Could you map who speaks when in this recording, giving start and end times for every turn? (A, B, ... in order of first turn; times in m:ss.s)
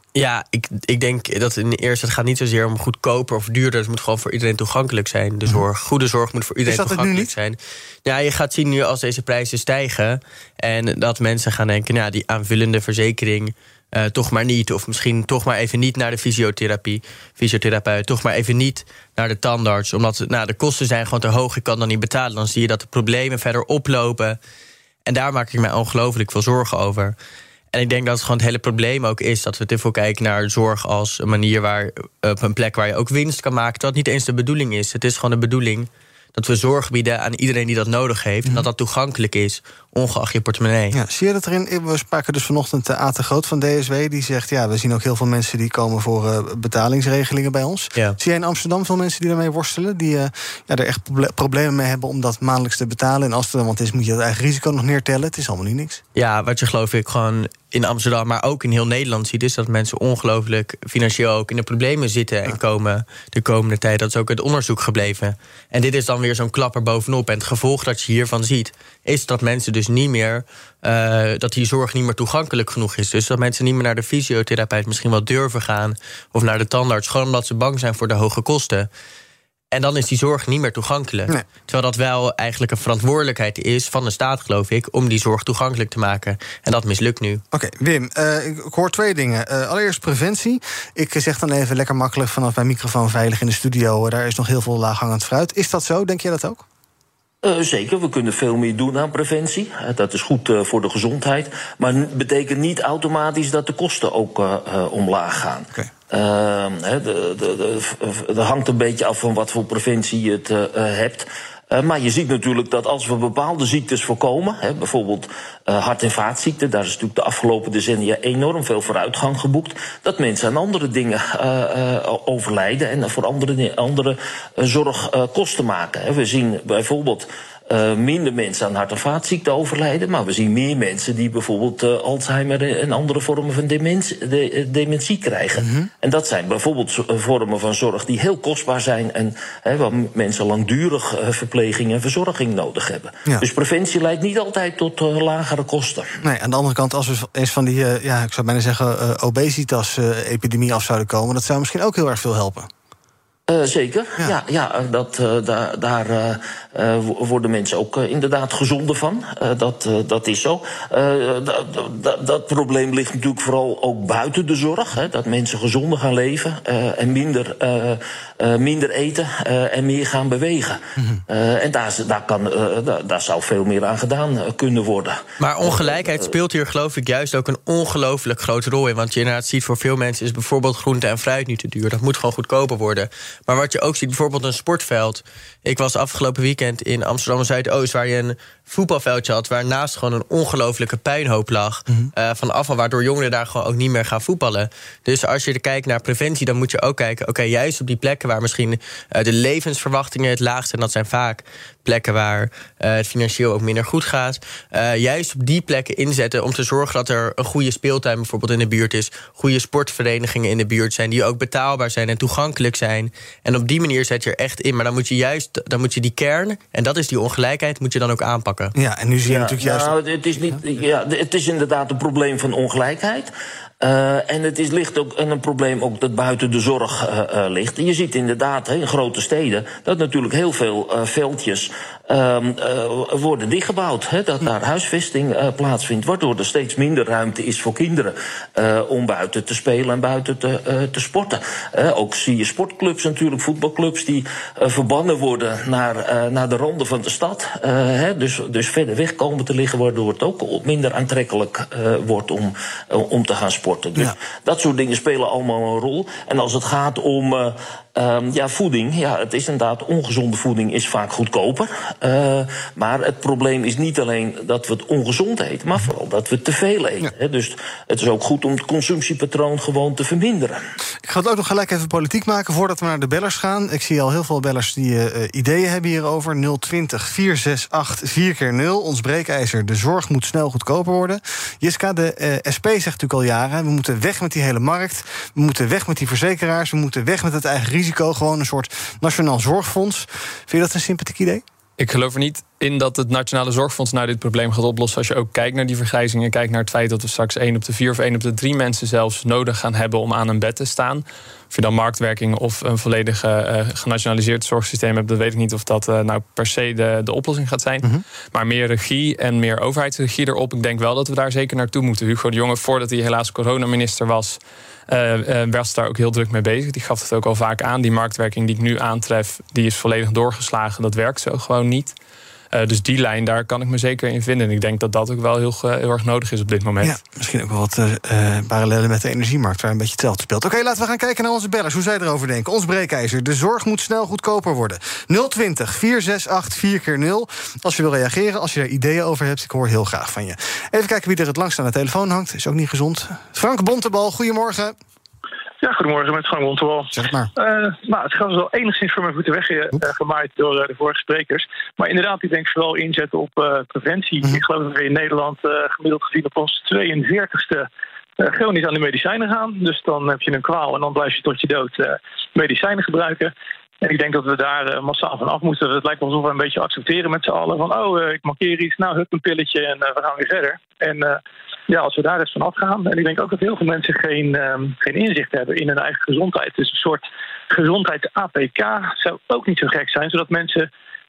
0:00.2-0:24.4 A
0:06.7-0:07.3 B
0:25.1-0:27.2 A
0:27.7-0:41.0 A
0:40.9-0:56.0 B
0:56.2-1:18.9 A
1:19.7-1:27.4 A
1:27.5-1:36.6 B
1:37.4-2:26.1 C
2:15.6-2:15.9 B
2:26.2-2:32.7 B
2:33.5-2:56.2 C
2:51.0-2:51.2 B
2:55.4-3:38.7 A
3:38.8-3:39.9 B
3:39.3-4:30.6 C
4:31.0-4:51.4 B
4:51.8-5:22.0 D
5:22.5-5:27.0 D
5:26.8-5:44.8 B
5:45.6-5:57.7 E
5:46.9-5:47.3 B
5:58.2-6:20.7 E